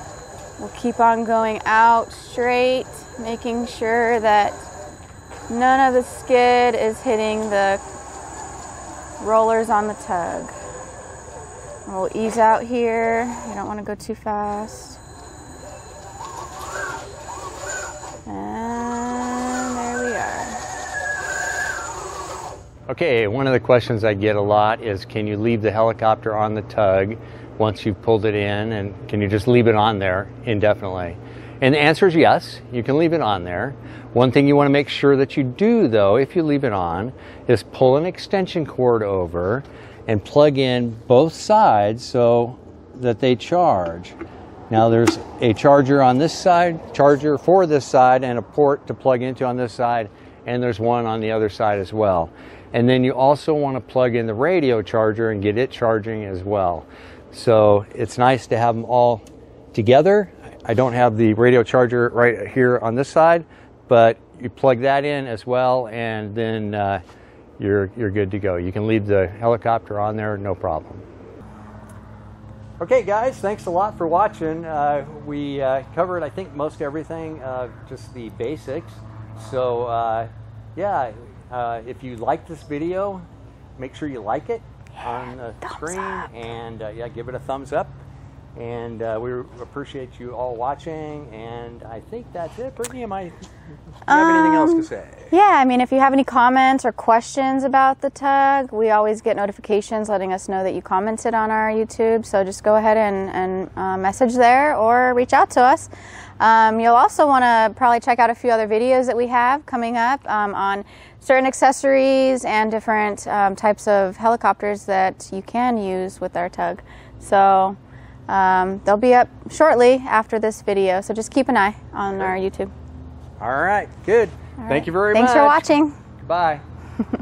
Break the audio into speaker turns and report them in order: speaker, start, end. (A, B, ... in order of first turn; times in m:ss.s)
0:00.6-0:04.7 A
0:05.5-0:07.8 A
0:09.2-0:10.5 A
0:11.9-0:15.0 A
0:18.2-0:20.6 A
0:22.9-0:44.2 B
0:44.7-0:59.2 B
0:59.7-1:07.0 B
1:07.6-1:11.0 B
1:12.8-1:23.2 B
1:23.8-1:28.0 B
1:25.6-1:25.9 A
1:28.5-1:33.3 B
1:34.0-1:35.3 B
1:34.1-2:02.7 A
2:03.4-2:05.7 B
2:04.6-2:05.9 A
2:06.2-2:06.6 B